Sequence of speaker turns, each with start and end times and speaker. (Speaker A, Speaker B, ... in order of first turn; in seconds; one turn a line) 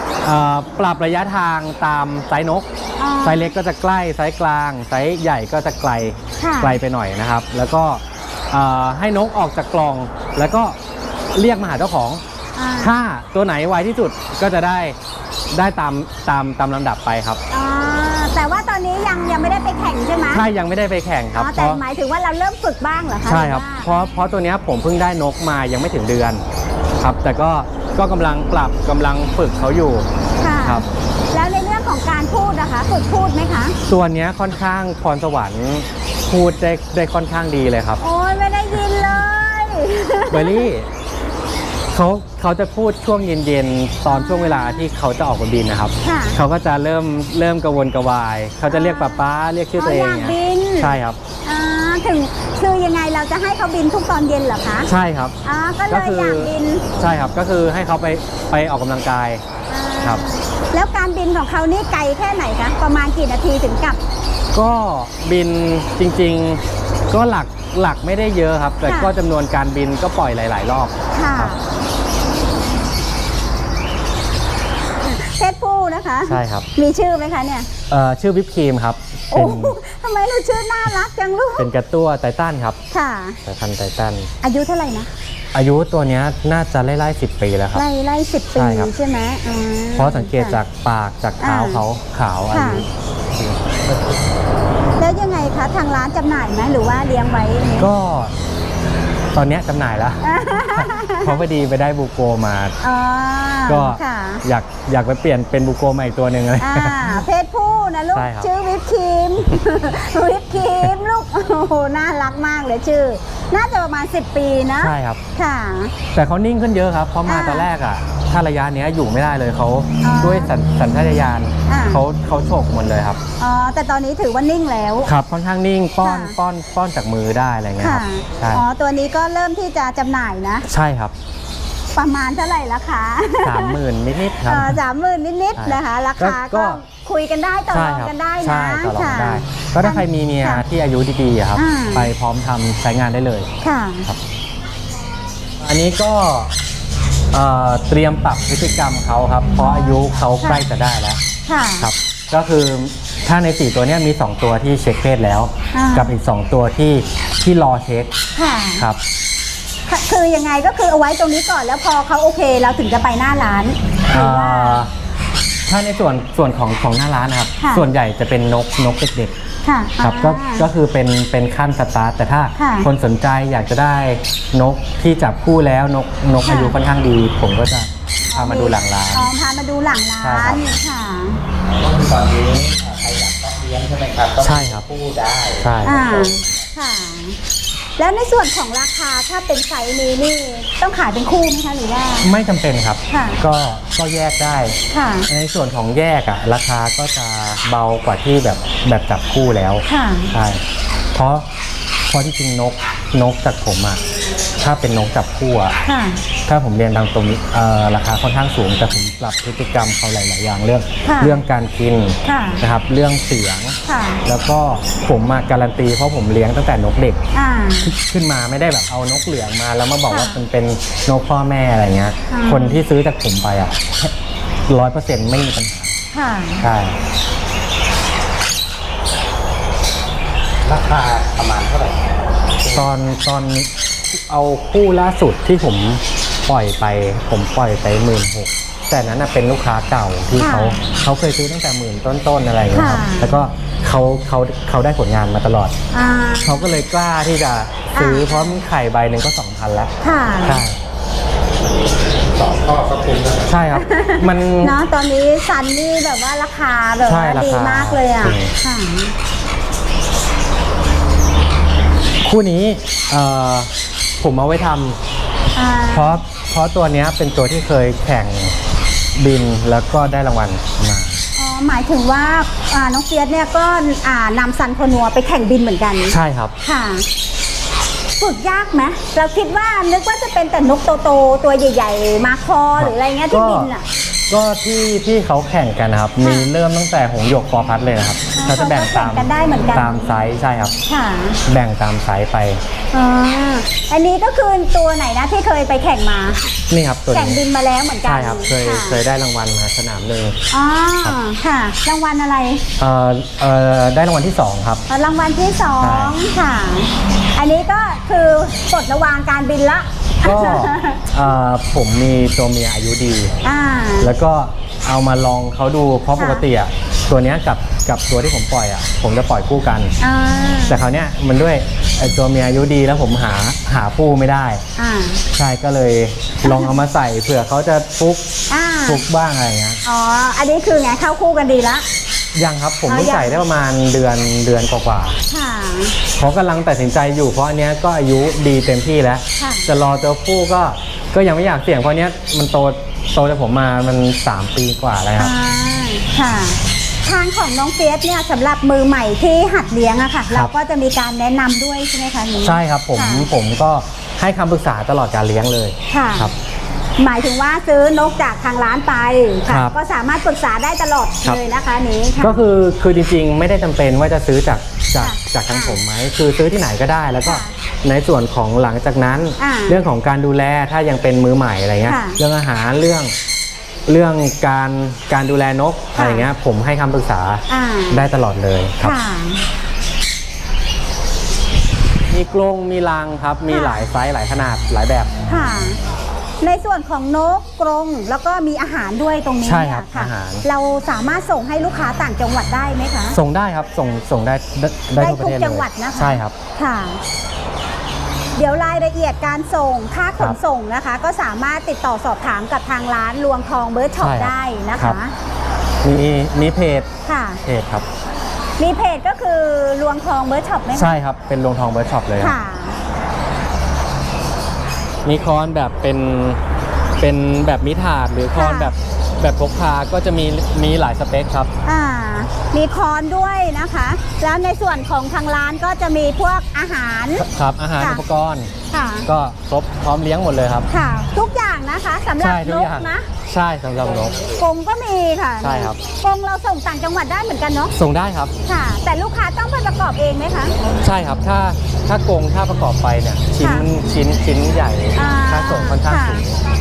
Speaker A: 0.2-2.7
Speaker B: 3.0-3.5
Speaker A: 3.2-10.8
Speaker B: 6.4-6.8
Speaker A: 11.3-12.2
Speaker B: 12.5-12.9
Speaker A: 12.8-15.0
Speaker A: 15.5-17.4
Speaker B: 17.5-20.4
Speaker A: 20.3-21.8
Speaker B: 21.3-24.0
Speaker A: 23.2-26.4
Speaker A: 27.0-30.1
Speaker B: 30.4-33.8
Speaker A: 30.6-30.9
Speaker A: 33.9-38.0
Speaker B: 38.0-40.7
Speaker A: 40.3-40.9
Speaker A: 41.9-51.2
Speaker B: 44.1-44.9
Speaker B: 46.0-46.4
Speaker B: 48.7-49.2
Speaker B: 49.8-54.9
Speaker A: 54.9-55.3
Speaker B: 55.4-56.9
Speaker A: 55.9-59.4
Speaker B: 59.7-64.0
Speaker A: 60.0-60.2
Speaker A: 64.5-71.5
Speaker B: 68.8-69.1
Speaker B: 71.1-71.7
Speaker B: 75.0-77.7
Speaker A: 76.2-76.7
Speaker A: 77.9-79.8
Speaker B: 79.3-81.7
Speaker A: 81.6-82.8
Speaker B: 82.9-83.4
Speaker A: 83.4-84.3
Speaker B: 84.4-85.1
Speaker A: 85.5-87.8
Speaker B: 87.7-90.6
Speaker A: 88.5-88.9
Speaker A: 90.0-92.9
Speaker B: 91.4-91.8
Speaker B: 92.5-92.8
Speaker B: 95.0-97.9
Speaker A: 97.8-98.3
Speaker A: 99.3-102.8
Speaker B: 100.2-101.4
Speaker B: 102.8-104.4
Speaker A: 103.7-107.2
Speaker B: 106.6-115.9
Speaker A: 108.1-108.5
Speaker A: 114.8-115.2
Speaker A: 116.1-123.2
Speaker B: 117.3-117.7
Speaker B: 120.0-120.5
Speaker B: 121.7-122.0
Speaker B: 123.4-125.1
Speaker A: 125.0-128.6
Speaker B: 126.0-126.3
Speaker B: 127.8-130.7
Speaker A: 130.6-131.1
Speaker B: 131.9-133.8
Speaker A: 133.4-134.8
Speaker B: 134.4-140.6
Speaker A: 135.6-136.8
Speaker A: 137.7-143.5
Speaker B: 141.6-142.1
Speaker B: 143.6-144.1
Speaker A: 145.6-146.5
Speaker A: 147.3-151.2
Speaker B: 149.6-150.7
Speaker B: 151.5-151.9
Speaker A: 151.8-158.1
Speaker B: 155.7-156.2
Speaker B: 158.3-158.9
Speaker B: 159.9-164.9
Speaker A: 164.1-164.9
Speaker A: 165.7-169.3
Speaker B: 167.6-167.8
Speaker B: 169.6-170.7
Speaker A: 170.0-179.3
Speaker B: 172.6-172.9
Speaker B: 176.4-176.8
Speaker B: 178.3-181.4
Speaker A: 180.2-180.7
Speaker C: 181.6-186.7
Speaker A: 184.4-184.8
Speaker A: 185.6-186.2
Speaker B: 185.8-187.4
Speaker B: 188.0-192.3
Speaker A: 192.2-200.6
Speaker B: 193.1-193.4
Speaker B: 194.9-195.3
Speaker B: 199.9-200.3
Speaker A: 201.1-201.5
Speaker A: 202.1-204.0
Speaker A: 204.6-205.8
Speaker B: 205.8-206.2
Speaker A: 206.4-217.2
Speaker B: 211.0-211.4
Speaker B: 212.2-212.6
Speaker B: 213.8-214.2
Speaker B: 217.3-217.9
Speaker A: 217.8-224.1
Speaker B: 220.1-220.4
Speaker B: 222.3-222.8
Speaker A: 224.7-225.9
Speaker B: 226.1-226.7
Speaker A: 226.6-227.0
Speaker C: 230.6-232.9
Speaker A: 232.7-245.8
Speaker B: 240.4-240.8
Speaker B: 242.7-243.3
Speaker B: 245.9-246.8
Speaker A: 246.4-250.8
Speaker B: 247.9-248.6
Speaker B: 250.0-250.6
Speaker C: 252.3-253.5
Speaker A: 253.4-254.7
Speaker B: 253.7-259.1
Speaker A: 257.0-258.5
Speaker A: 262.2-265.0
Speaker B: 265.5-266.2
Speaker A: 265.9-268.5
Speaker A: 269.1-271.2
Speaker B: 271.4-277.1
Speaker A: 276.1-276.5
Speaker B: 278.2-283.8
Speaker A: 282.8-283.7
Speaker A: 284.3-290.7
Speaker B: 286.2-286.5
Speaker B: 288.3-290.1
Speaker B: 290.9-291.4
Speaker A: 291.4-292.6
Speaker B: 292.9-296.5
Speaker A: 296.7-297.4
Speaker B: 297.1-299.0
Speaker A: 298.0-300.4
Speaker B: 300.5-302.6
Speaker A: 302.8-304.8
Speaker B: 304.9-311.0
Speaker A: 305.8-306.1
Speaker A: 310.2-313.3
Speaker B: 313.4-314.1
Speaker A: 314.0-319.9
Speaker B: 316.2-316.4
Speaker B: 320.0-320.8
Speaker A: 320.7-324.6
Speaker B: 324.8-325.2
Speaker A: 325.3-328.3
Speaker B: 326.4-326.8
Speaker B: 328.5-329.0
Speaker A: 328.9-329.8
Speaker B: 329.8-331.8
Speaker A: 332.3-335.2
Speaker B: 332.9-333.4
Speaker B: 335.3-336.0
Speaker A: 336.2-345.3
Speaker B: 339.4-339.7
Speaker B: 345.2-353.3
Speaker A: 352.4-356.3
Speaker B: 355.9-356.3
Speaker B: 357.0-362.4
Speaker A: 359.5-359.7
Speaker A: 362.2-373.1
Speaker B: 365.0-365.8
Speaker B: 367.2-367.5
Speaker B: 369.4-369.8
Speaker B: 371.8-372.2
Speaker A: 373.9-379.0
Speaker B: 375.9-376.3
Speaker B: 377.5-378.1
Speaker B: 378.8-379.4
Speaker A: 382.1-385.1
Speaker B: 383.5-383.9
Speaker B: 385.3-385.8
Speaker B: 386.4-393.2
Speaker A: 389.4-390.4
Speaker A: 393.1-396.3
Speaker B: 395.0-397.0
Speaker B: 398.4-405.1
Speaker A: 404.0-405.0
Speaker A: 405.8-406.9
Speaker B: 407.1-407.4
Speaker A: 407.4-407.9
Speaker B: 408.6-411.0
Speaker A: 410.7-412.4
Speaker B: 412.2-412.8
Speaker A: 415.0-416.4
Speaker A: 417.0-421.5
Speaker B: 418.3-418.7
Speaker B: 421.6-427.3
Speaker A: 427.1-428.5
Speaker B: 428.7-429.1
Speaker A: 429.1-430.7
Speaker B: 430.7-433.1
Speaker A: 432.2-434.3
Speaker B: 434.3-437.7
Speaker A: 435.4-435.8
Speaker A: 437.7-438.3
Speaker B: 438.4-440.5
Speaker A: 440.8-446.4
Speaker B: 443.4-443.7
Speaker B: 444.9-446.2